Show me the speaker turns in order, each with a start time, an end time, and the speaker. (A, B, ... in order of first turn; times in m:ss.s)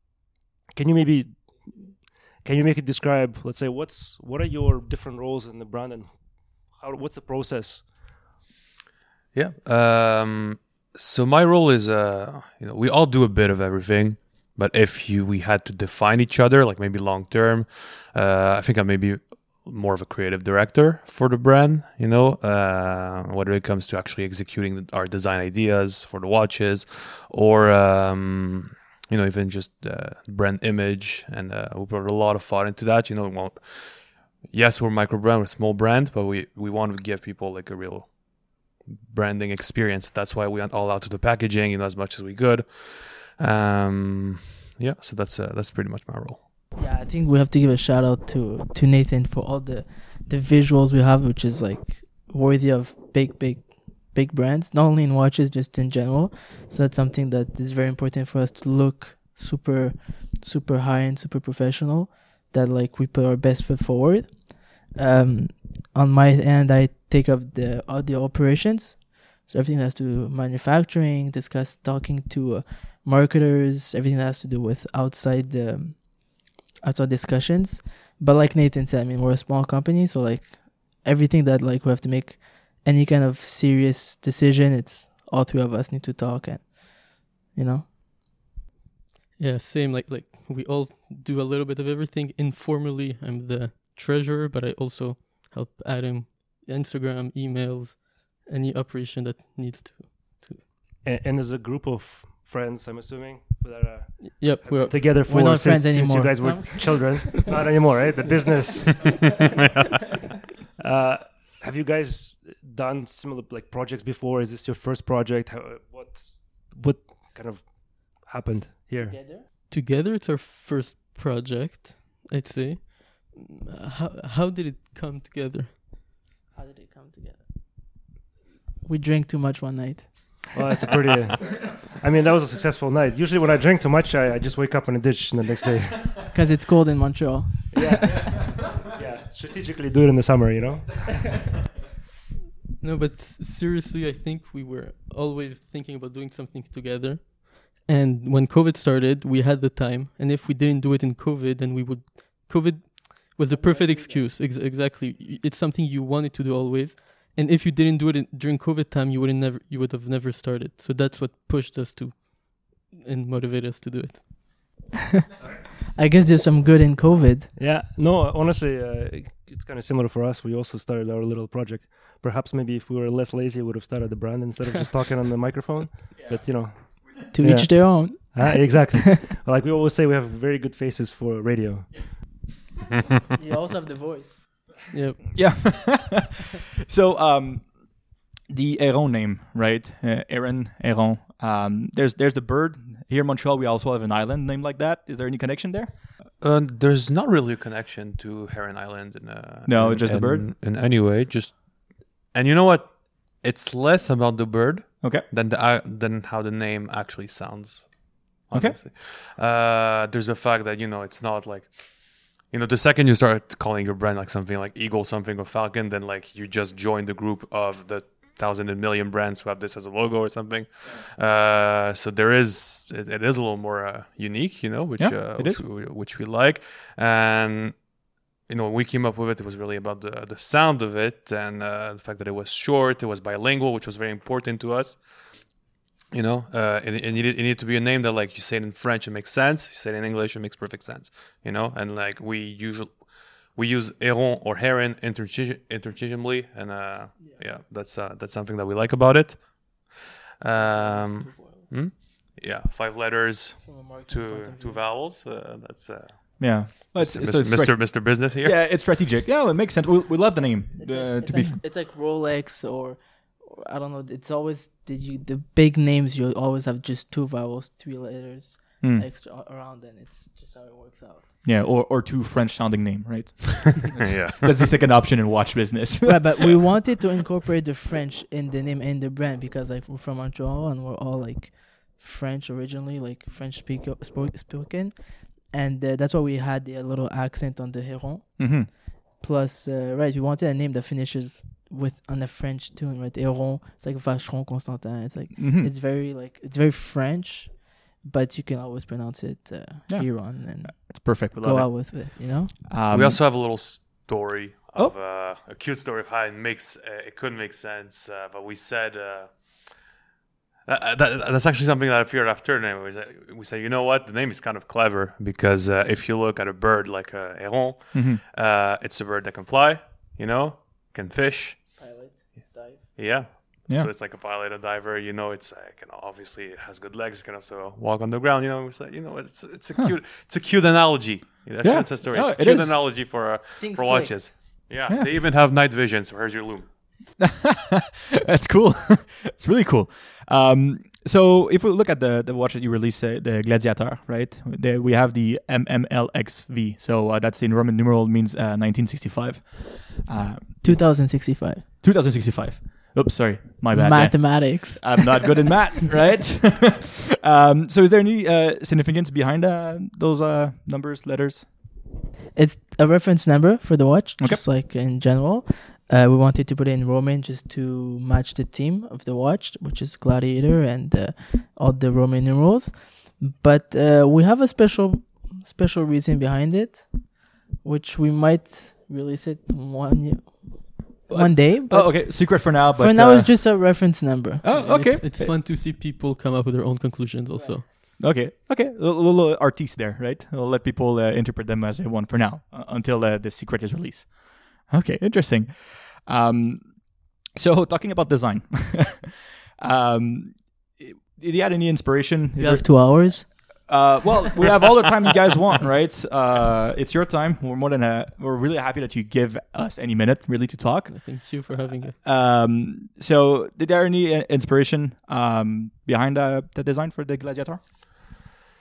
0:00.7-0:08.1 A
0:09.3-0:46.4 B
0:46.7-1:28.4 C
1:29.4-1:40.6 D
1:41.0-1:49.5 A
1:44.2-1:45.0 D
1:45.2-1:47.5 C
1:50.8-1:59.3 A
1:59.0-1:59.4 C
1:59.7-2:05.8 D
2:06.5-2:08.0 C
2:08.8-2:10.5 C
2:10.5-2:16.2 A
2:16.3-2:18.5 C
2:17.7-2:21.2 A
2:22.8-2:44.3 D
2:33.5-2:34.3 C
2:46.0-2:47.5 C
2:47.6-3:02.2 A
2:56.2-2:56.9 E
2:57.3-2:59.0 C
3:03.4-3:04.8 C
3:04.9-3:05.2 D
3:05.3-3:16.1 E
3:16.4-3:55.2 B
3:19.6-3:20.5 E
3:25.0-3:25.2 E
3:28.5-3:28.8 E
3:45.0-3:45.7 E
3:56.1-4:18.6 B
4:07.1-4:07.6 C
4:10.5-4:11.7 C
4:13.6-4:14.9 C
4:16.4-4:21.6 E
4:20.8-4:31.3 C
4:28.8-4:29.1 E
4:31.4-4:36.5 E
4:34.0-4:34.5 B
4:36.0-5:02.6 C
4:48.4-4:48.7 E
4:55.4-4:55.7 E
4:59.9-5:03.2 E
5:02.9-5:09.9 B
5:10.6-5:21.7 B
5:17.9-5:18.2 E
5:21.8-5:22.9 C
5:23.0-5:36.7 B
5:31.6-5:33.0 E
5:33.6-5:34.7 C
5:37.2-6:01.5 E
5:50.6-5:51.6 C
5:53.7-5:55.4 C
6:02.4-6:24.4 C
6:04.2-6:04.4 E
6:21.1-6:23.9 E
6:24.4-6:25.4 E
6:24.5-6:27.6 D
6:27.3-6:27.6 C
6:28.0-6:57.6 E
6:42.4-6:43.7 C
6:50.9-6:52.0 D